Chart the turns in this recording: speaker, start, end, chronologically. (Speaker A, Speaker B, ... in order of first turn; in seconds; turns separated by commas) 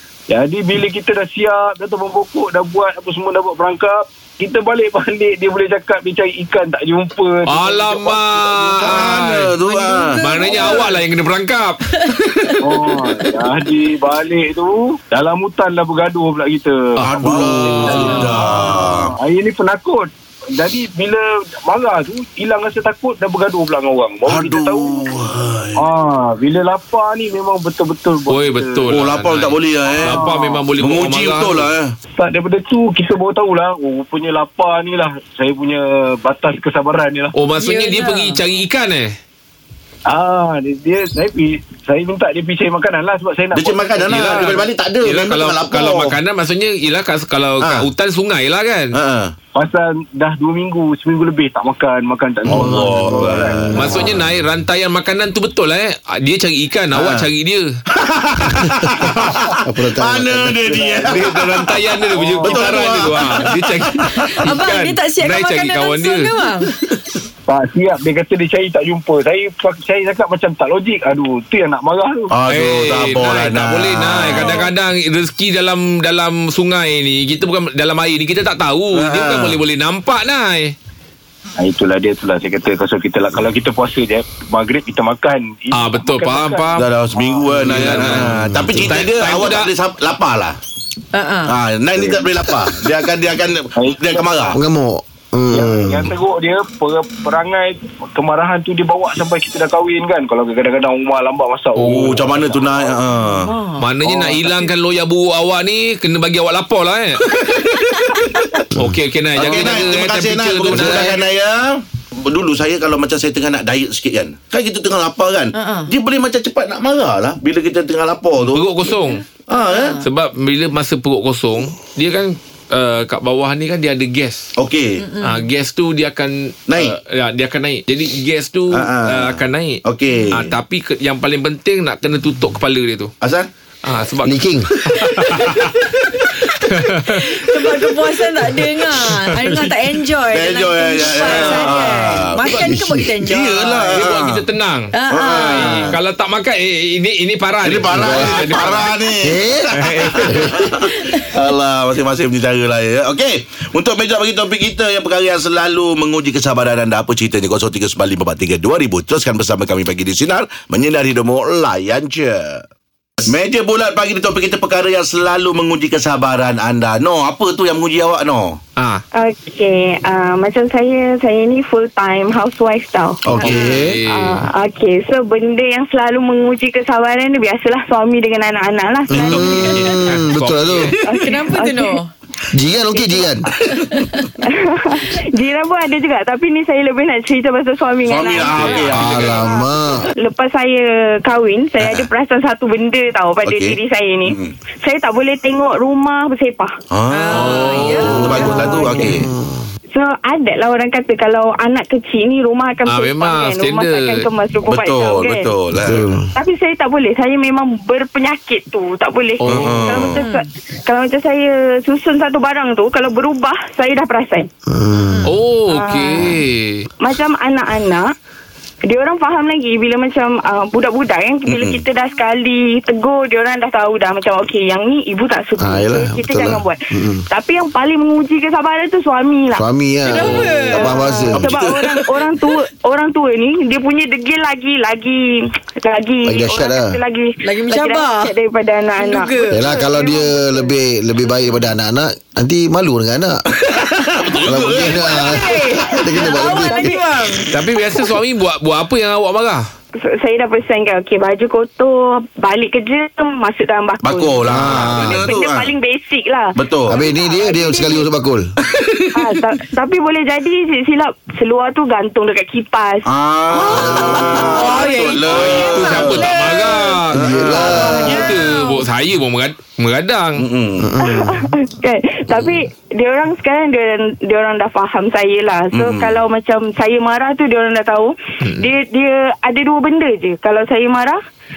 Speaker A: 0.3-9.3, Speaker B: 7.5-9.5, Speaker C: 8.8-10.7, Speaker D: 9.6-11.0, Speaker B: 10.1-11.8, Speaker D: 11.9-12.5, Speaker A: 12.6-25.1, Speaker B: 17.0-18.5, Speaker C: 17.0-19.1, Speaker C: 24.2-25.9, Speaker A: 25.8-29.0, Speaker B: 28.3-31.7, Speaker C: 28.9-30.2, Speaker A: 29.8-30.6, Speaker C: 30.8-31.9, Speaker A: 32.2-37.3, Speaker B: 37.4-39.1, Speaker D: 37.6-38.4, Speaker A: 40.1-44.6, Speaker C: 43.5-46.2, Speaker B: 44.1-48.9, Speaker C: 47.6-47.9, Speaker C: 48.9-49.3, Speaker A: 49.5-53.9, Speaker C: 52.5-53.7, Speaker E: 52.6-54.2, Speaker B: 53.7-57.7, Speaker C: 56.9-57.3, Speaker C: 57.9-61.8, Speaker E: 59.5-60.7, Speaker A: 60.6-61.3, Speaker B: 61.1-66.3, Speaker A: 62.0-63.0, Speaker C: 62.4-64.7, Speaker D: 64.4-66.9, Speaker A: 67.5-72.3, Speaker C: 72.3-74.7, Speaker B: 72.5-80.7, Speaker D: 74.4-74.7, Speaker C: 78.9-79.6, Speaker A: 81.6-88.2, Speaker B: 85.7-86.8, Speaker C: 86.7-90.6, Speaker B: 87.6-89.7, Speaker E: 88.2-88.9, Speaker D: 91.1-91.5, Speaker C: 91.5-94.6, Speaker A: 92.0-92.2, Speaker A: 93.8-94.5, Speaker E: 94.5-96.1, Speaker A: 95.5-103.1, Speaker C: 101.8-103.5, Speaker D: 103.1-103.9, Speaker B: 103.8-107.2, Speaker A: 104.0-104.5, Speaker C: 107.3-108.6, Speaker B: 108.8-111.2, Speaker C: 109.3-118.9, Speaker E: 110.7-111.1, Speaker D: 115.5-115.9, Speaker B: 118.4-119.2, Speaker C: 119.5-120.0, Speaker D: 119.5-120.0, Speaker B: 120.0-124.5, Speaker C: 124.5-125.0, Speaker D: 125.0-125.5, Speaker B: 125.2-133.1, Speaker C: 126.7-127.0, Speaker C: 128.7-130.5, Speaker C: 133.2-133.5, Speaker B: 133.8-135.8, Speaker E: 134.2-135.5, Speaker C: 134.9-136.3, Speaker B: 136.6-137.5, Speaker D: 137.1-143.9, Speaker C: 137.6-138.1, Speaker B: 139.0-139.8, Speaker C: 140.3-144.4, Speaker E: 142.5-143.2, Speaker B: 143.9-144.9, Speaker D: 144.9-145.9, Speaker C: 145.1-146.0, Speaker B: 145.4-148.9, Speaker C: 147.6-162.6, Speaker E: 147.9-148.6, Speaker E: 149.2-150.7, Speaker B: 149.8-150.3, Speaker C: 163.2-168.6, Speaker B: 168.8-169.0, Speaker F: 169.1-180.1, Speaker C: 173.2-173.9, Speaker B: 173.4-174.4, Speaker D: 173.5-173.8, Speaker E: 179.1-180.9, Speaker B: 179.8-180.9, Speaker D: 180.9-182.1, Speaker F: 181.0-182.0, Speaker E: 182.5-183.5, Speaker D: 183.7-184.2, Speaker F: 184.4-189.7, Speaker C: 188.1-189.5, Speaker B: 188.4-189.4, Speaker E: 188.9-190.1, Speaker F: 190.2-196.7, Speaker C: 191.8-192.1, Speaker C: 193.4-194.5, Speaker C: 196.9-199.3, Speaker D: 197.1-198.7, Speaker B: 197.3-198.3, Speaker F: 198.1-199.1, Speaker E: 198.1-199.7, Speaker F: 199.9-205.5, Speaker B: 202.9-204.3, Speaker C: 204.7-206.2, Speaker E: 205.8-206.3, Speaker F: 206.3-214.5, Speaker B: 209.4-210.1, Speaker C: 209.5-210.2, Speaker D: 210.1-210.5, Speaker E: 214.7-215.3, Speaker D: 215.1-215.3, Speaker B: 215.3-216.8, Speaker F: 215.7-216.2, Speaker F: 217.0-218.0, Speaker F: 218.8-229.6, Speaker C: 221.5-221.8, Speaker E: 225.6-227.2, Speaker E: 229.5-231.5, Speaker D: 230.0-231.2, Speaker B: 230.1-230.6, Speaker F: 230.2-240.7, Speaker C: 231.3-232.0, Speaker E: 236.2-237.0, Speaker D: 237.4-238.3, Speaker D: 238.9-239.6, Speaker E: 239.5-243.4, Speaker C: 243.5-246.1, Speaker E: 244.4-247.0, Speaker D: 245.0-247.5, Speaker F: 246.3-247.0, Speaker B: 247.5-249.6, Speaker F: 250.1-258.1, Speaker C: 254.0-255.7, Speaker E: 254.5-255.3, Speaker C: 256.6-257.0, Speaker E: 256.9-258.5, Speaker C: 258.7-259.2, Speaker F: 259.1-266.7, Speaker C: 263.1-266.5, Speaker D: 264.2-266.8, Speaker B: 265.3-270.4, Speaker C: 267.1-268.0, Speaker E: 267.1-268.2, Speaker F: 267.6-268.6, Speaker D: 268.3-268.7, Speaker C: 270.4-270.9, Speaker E: 270.8-271.5, Speaker F: 271.0-281.2, Speaker C: 275.7-276.2